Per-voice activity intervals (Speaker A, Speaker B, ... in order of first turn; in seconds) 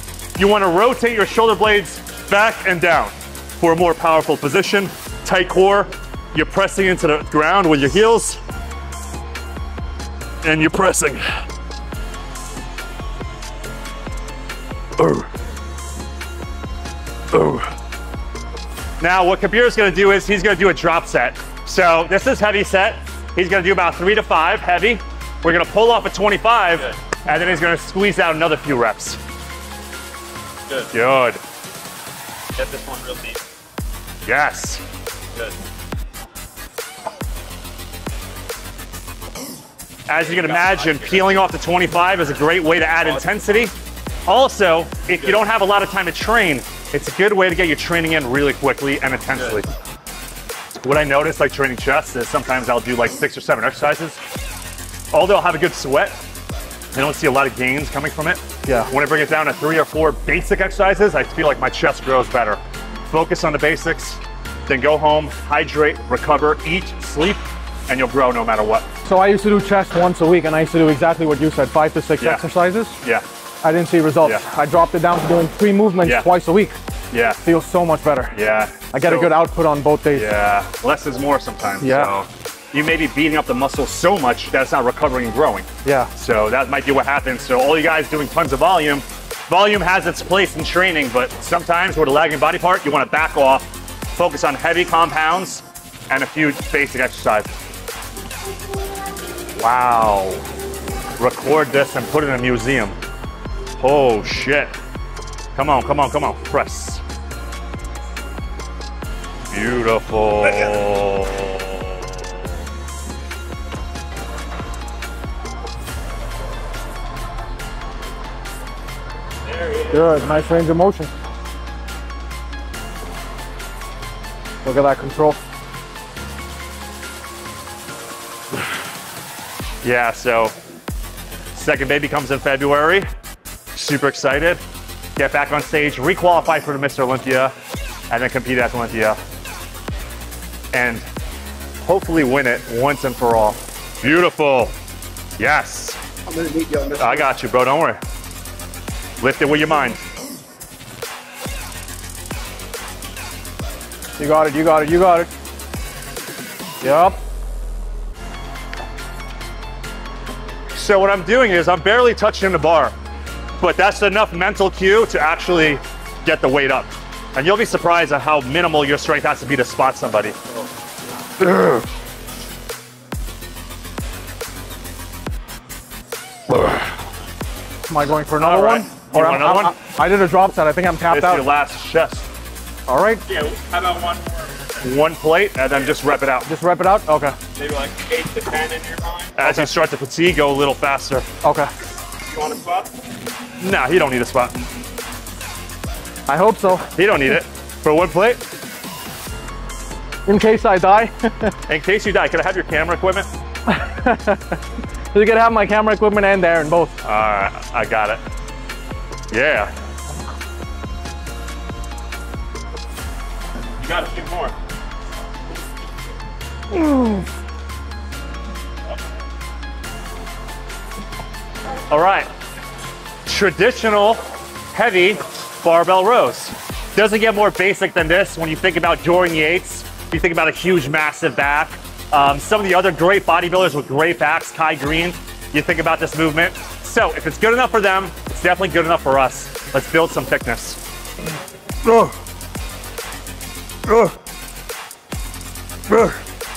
Speaker A: 0.4-8.4, 10.4-11.3, 17.3-17.6, 19.0-29.2, 30.9-31.4, 34.3-34.8, 40.1-43.7, 44.3-49.7, 50.8-54.2, 55.1-56.1, 56.9-68.9, 77.1-77.4, 78.3-79.4, 80.1-97.5, 99.6-100.4, 101.2-103.0, 103.8-104.7, 105.6-107.0, 109.5-111.9, 129.8-130.6, 131.5-133.1, 133.8-134.6, 135.2-137.5, 138.1-139.2, 140.7-141.1, 141.8-144.7, 145.4-146.0, 146.9-148.0, 149.2-150.0, 160.7-162.9, 163.6-170.4, 178.4-179.8, 181.1-182.3, 184.8-186.5, 189.4-191.3, 193.6-194.7, 196.9-198.4, 201.7-203.3, 207.0-208.2, 209.3-209.7, 221.9-222.3, 223.3-224.2, 224.7-240.8, 241.9-242.1, 243.9-244.2
Speaker B: 32.6-33.4, 40.3-41.4, 119.5-120.0, 146.3-146.9, 183.3-184.8, 187.6-189.4, 192.3-192.9, 213.8-214.5
Speaker C: 69.0-73.0, 73.6-76.8, 77.4-78.4, 78.9-80.3, 81.8-82.1, 85.8-86.1, 119.9-121.1, 124.6-125.4, 154.2-155.3, 156.8-157.2, 177.9-181.5, 182.9-183.2, 186.5-187.4, 189.4-189.7, 191.4-191.7, 196.3-196.9, 200.3-201.6, 203.7-204.6, 205.1-206.9